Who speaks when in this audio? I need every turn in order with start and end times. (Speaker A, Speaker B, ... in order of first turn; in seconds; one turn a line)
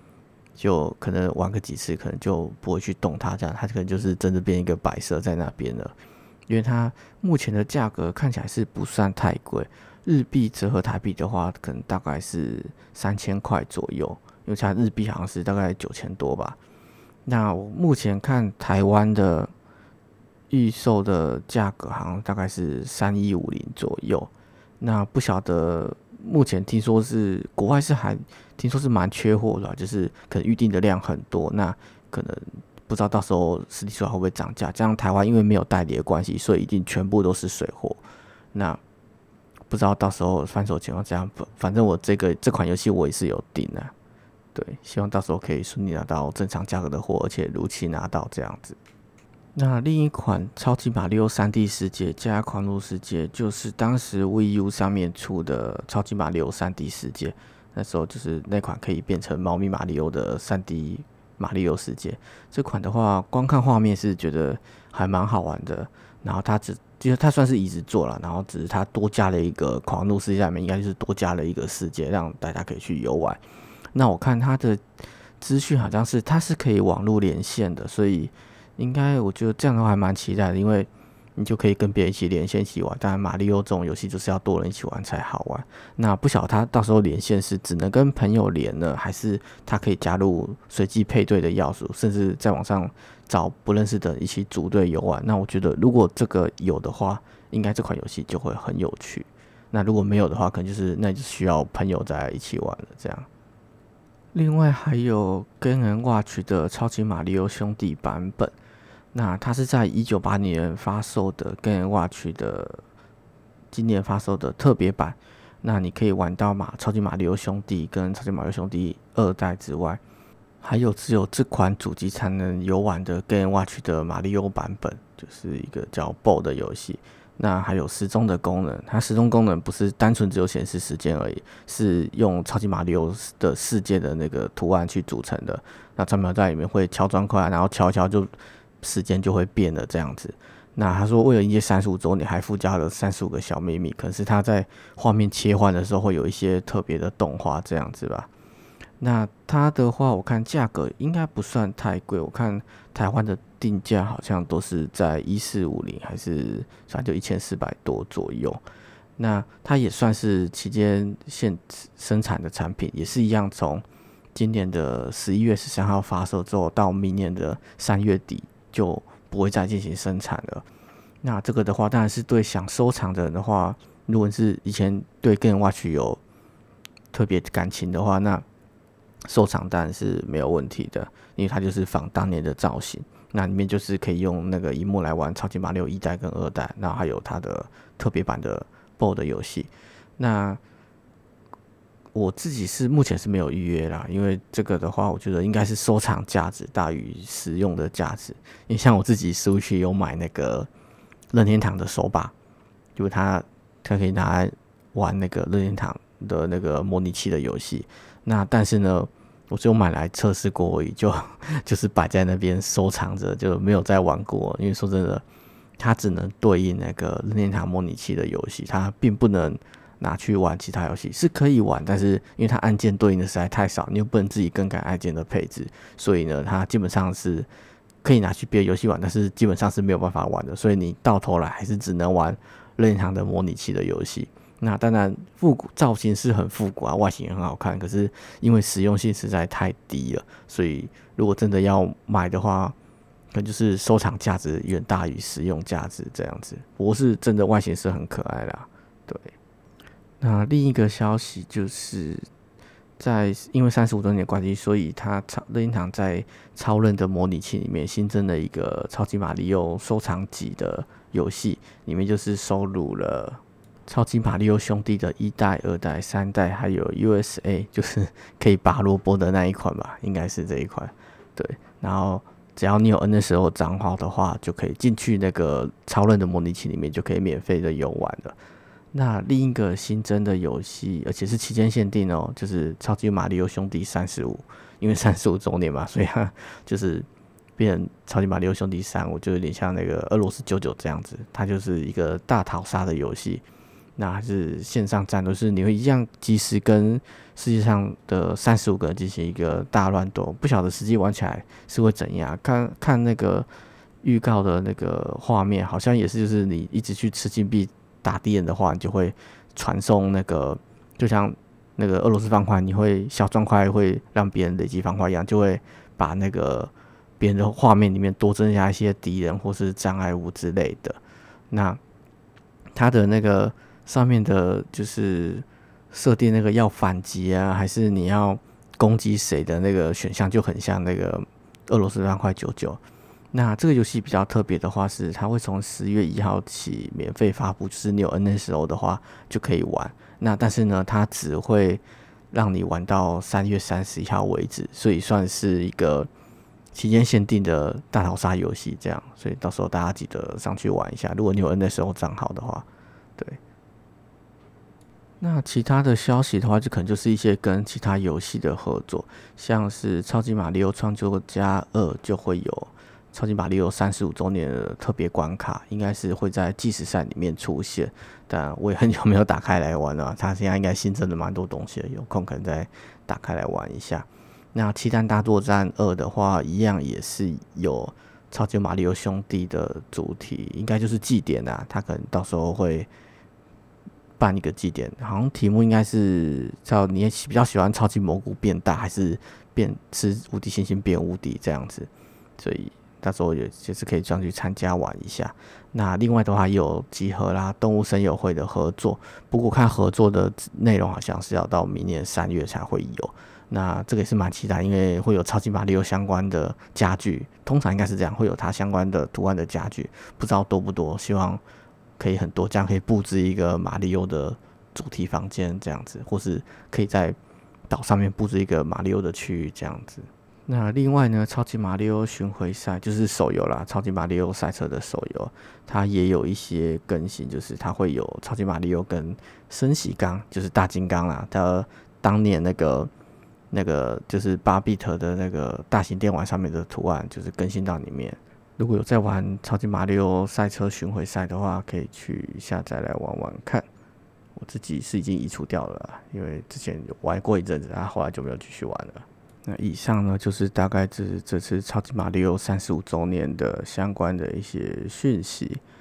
Speaker A: 0.6-6.0
Speaker A: 6.5-16.6
Speaker A: 17.3-19.5
Speaker A: 20.5-38.0
Speaker A: 38.5-38.8
Speaker A: 39.7-43.9
Speaker A: 44.5-48.8
Speaker A: 49.5-73.4
Speaker A: 73.9-74.8
Speaker A: 75.4-103.3
Speaker A: 104.3-108.5
Speaker A: 109.1-112.8
Speaker A: 113.7-120.0
Speaker A: 120.6-148.3
Speaker A: 149.0-158.6
Speaker A: 159.2-170.7
Speaker A: 171.2-176.2
Speaker A: 177.1-178.4
Speaker A: 179.3-190.6
Speaker A: 192.1-200.7
Speaker A: 201.3-202.3
Speaker A: 203.0-215.2
Speaker A: 215.8-227.5
Speaker A: 228.0-242.8
Speaker A: 243.3-249.3
Speaker A: 250.2-252.3
Speaker A: 253.0-278.4
Speaker A: 278.9-293.4
Speaker A: 294.0-303.5
Speaker A: 304.0-321.0
Speaker A: 321.5-321.8
Speaker A: 322.8-332.8
Speaker A: 333.3-346.1
Speaker A: 346.7-352.7
Speaker A: 355.2-382.9
Speaker A: 384.2-411.4
Speaker A: 412.0-417.2
Speaker A: 417.7-432.9
Speaker A: 433.5-443.7
Speaker A: 444.4-455.6